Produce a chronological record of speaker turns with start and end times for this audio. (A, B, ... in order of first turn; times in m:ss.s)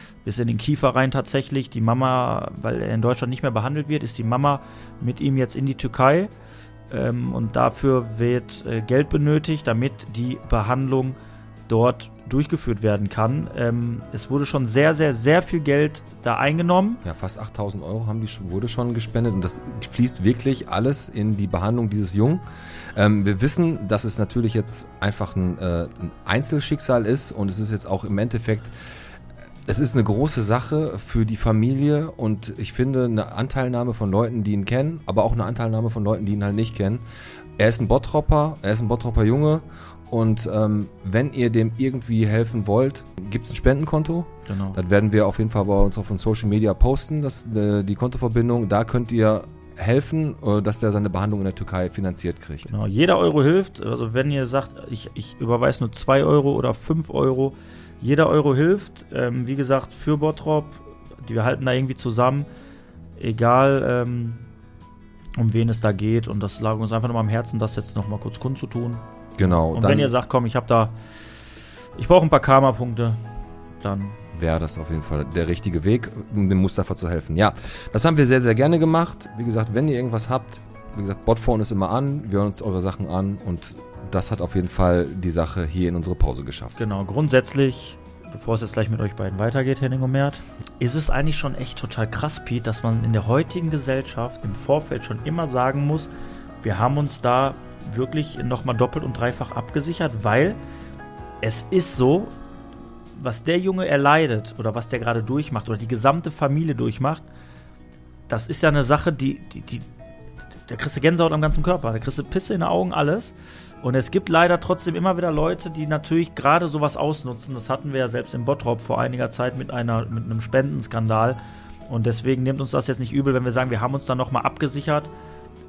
0:00.2-0:06.3 A
0:06.9-0:11.2 A
0:11.7-0:17.0 A
0:17.0-0:22.4 B
0:22.9-0:28.7 B
0:29.7-0:37.0 B
0:37.6-0:52.7 B
0:44.5-0:44.8 A
0:52.7-1:02.5 A
1:03.2-1:04.4 A
1:05.4-1:10.9 A
1:09.4-1:10.1 B
1:12.0-1:13.2 A
1:13.8-1:14.2 A
1:14.4-1:26.8 B
1:26.8-1:36.1 A
1:36.6-1:40.6 A
1:41.4-1:42.3 A
1:43.2-1:47.2 A
1:48.3-1:49.9 A
1:50.7-2:05.1 A